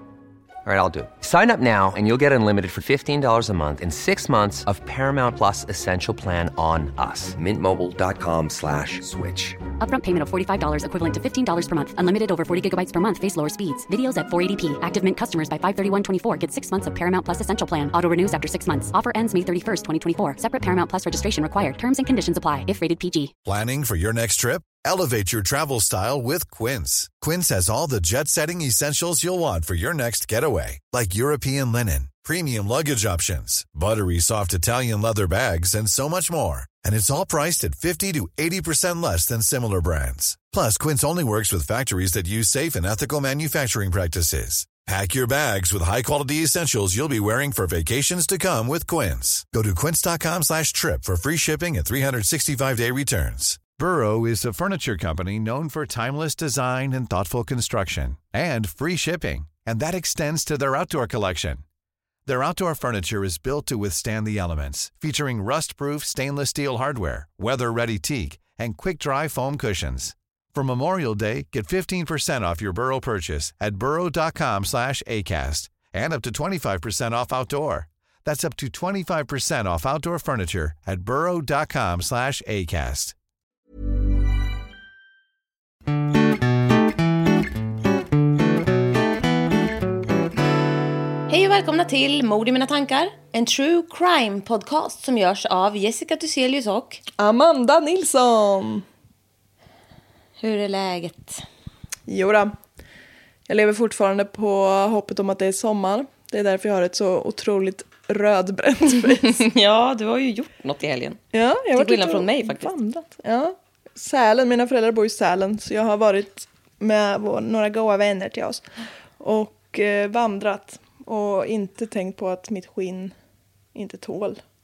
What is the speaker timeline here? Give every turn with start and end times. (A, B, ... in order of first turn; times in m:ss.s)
0:00.6-0:09.6 A
0:09.8-0:23.3 B
0:23.4-1:01.6 C
1:02.3-1:23.1 C
1:31.3-1:37.0 D
1:37.2-1:38.8 E
1:40.4-1:41.5 D
1:42.1-1:42.6 E
1:43.5-1:49.4 E
1:49.2-1:51.2 D
1:51.3-1:58.6 E
1:51.7-1:52.7 D
1:59.2-2:03.1 E
2:03.8-2:04.4 E